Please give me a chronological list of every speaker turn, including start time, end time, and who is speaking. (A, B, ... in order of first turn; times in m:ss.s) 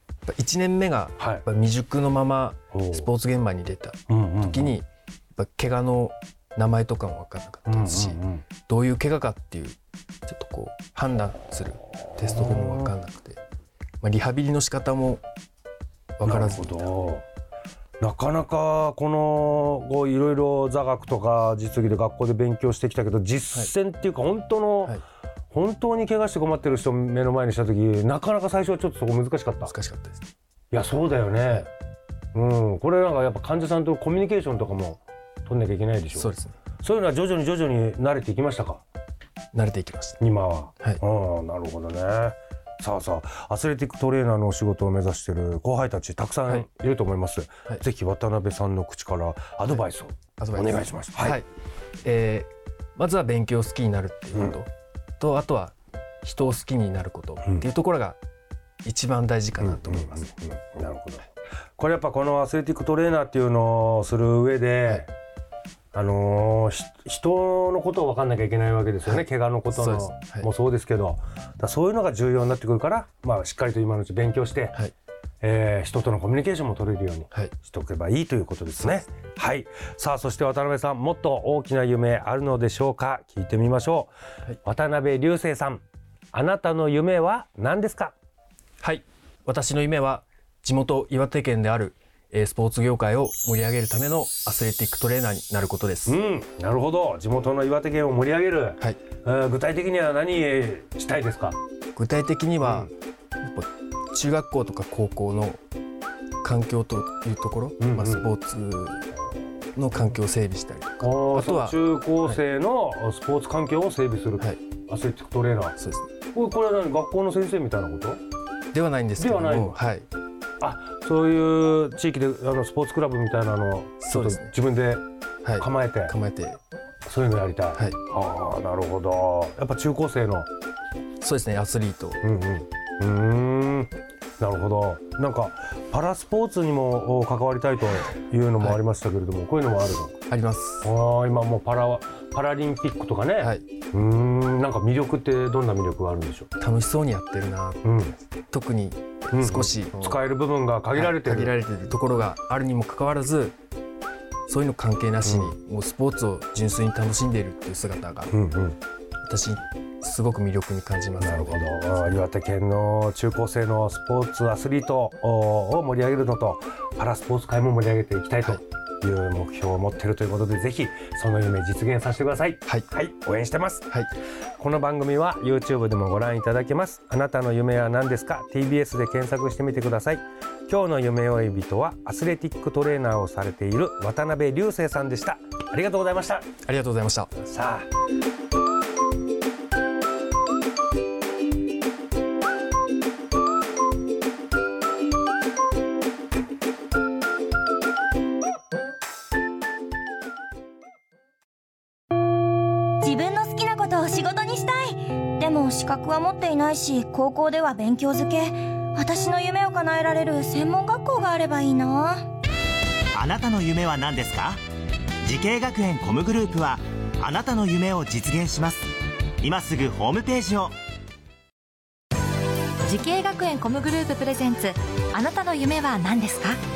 0:00.3-0:13.4 A
0:01.2-0:01.4 B
0:02.7-0:03.1 B
0:04.1-0:04.8 B
0:07.7-0:08.4 B
0:12.2-0:12.9 B
0:14.0-0:15.2 A
0:16.2-0:16.9 A
0:16.2-0:17.2 B
0:18.0-0:29.7 B
0:29.6-0:30.2 A
0:30.7-0:31.7 B
0:32.3-0:36.3 B
0:36.1-0:36.6 A
0:36.8-0:38.8 B
0:39.5-0:40.2 A
0:40.2-0:51.4 B
0:50.4-0:51.5 A
0:52.0-0:58.2 A
0:58.8-1:00.3 A
0:59.6-1:05.1 B
1:05.9-1:14.8 B
1:09.0-1:10.5 A
1:15.4-1:24.1 B
1:24.6-1:28.1 B
1:28.8-1:36.2 A
1:36.0-1:41.6 B
1:41.9-1:45.6 A
1:42.6-1:42.9 B
1:46.4-1:49.1 A
1:47.8-1:48.3 B
1:49.7-1:52.4 A
1:51.0-1:55.8 B
1:55.8-1:56.1 A
1:56.3-1:58.2 B
1:58.7-2:00.1 A
1:59.2-1:59.9 B
2:00.6-2:05.0 B
2:04.0-2:04.5 A
2:05.4-2:06.6 A
2:05.6-2:06.1 B
2:07.0-2:10.5 B
2:07.7-2:08.0 A
2:11.2-2:12.2 A
2:12.2-2:20.2 B
2:20.3-2:20.9 A
2:20.8-2:26.5 B
2:23.4-2:23.6 A
2:26.6-2:30.2 A
2:27.8-2:28.1 B
2:29.3-2:31.6 B
2:30.9-2:33.5 A
2:34.5-2:38.4 A
2:35.2-2:35.5 B
2:38.3-2:38.8 B
2:39.2-2:41.7 A
2:41.2-2:53.9 B
2:54.6-3:06.5 B
3:06.6-3:07.3 A
3:07.4-3:07.9 B
3:23.0-3:32.3 C
3:33.1-3:34.6 D
3:35.2-3:40.8 D
3:42.8-3:46.6 E